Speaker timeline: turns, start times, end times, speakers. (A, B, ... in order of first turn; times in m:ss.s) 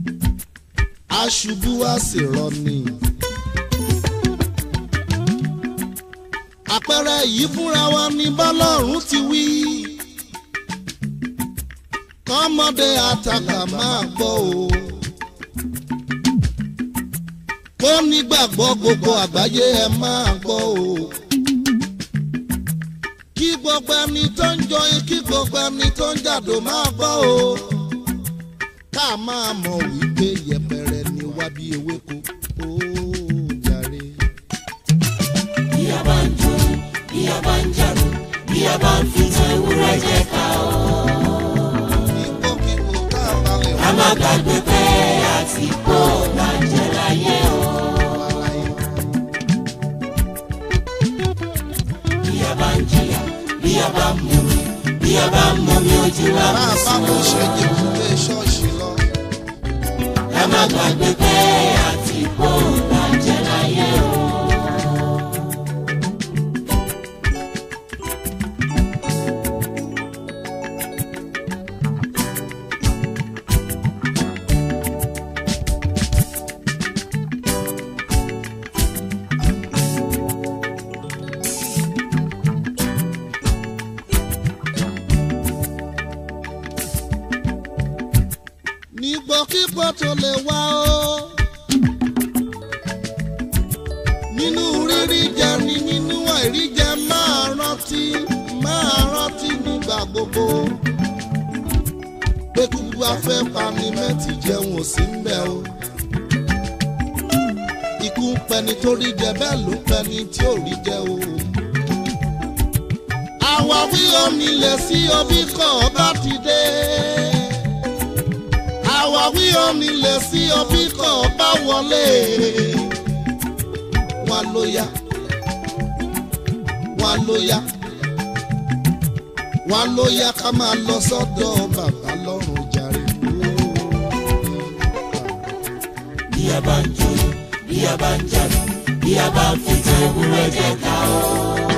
0:01.1-0:03.0 A
0:06.7-0:10.0 A
0:12.2-0:15.0 A
0:17.8-0:21.1 A
0:23.3-0:27.9 A
0:28.9-0:34.3 A
0:35.7-0:40.9 B
0:42.0-0:44.2 A
0:43.9-0:47.8 B
0:47.9-0:48.8 A
0:52.2-0:56.6 B
0:56.4-0:59.1 A
1:00.3-1:04.5 B
1:28.9-1:31.4 A
1:34.3-1:40.8 A
1:42.5-1:45.7 A
1:48.0-1:51.6 A
1:53.4-1:57.7 A
1:58.8-2:03.0 A
2:04.2-2:04.9 A
2:06.9-2:07.7 A
2:09.6-2:14.4 A
2:14.9-2:15.2 A
2:16.3-2:21.2 B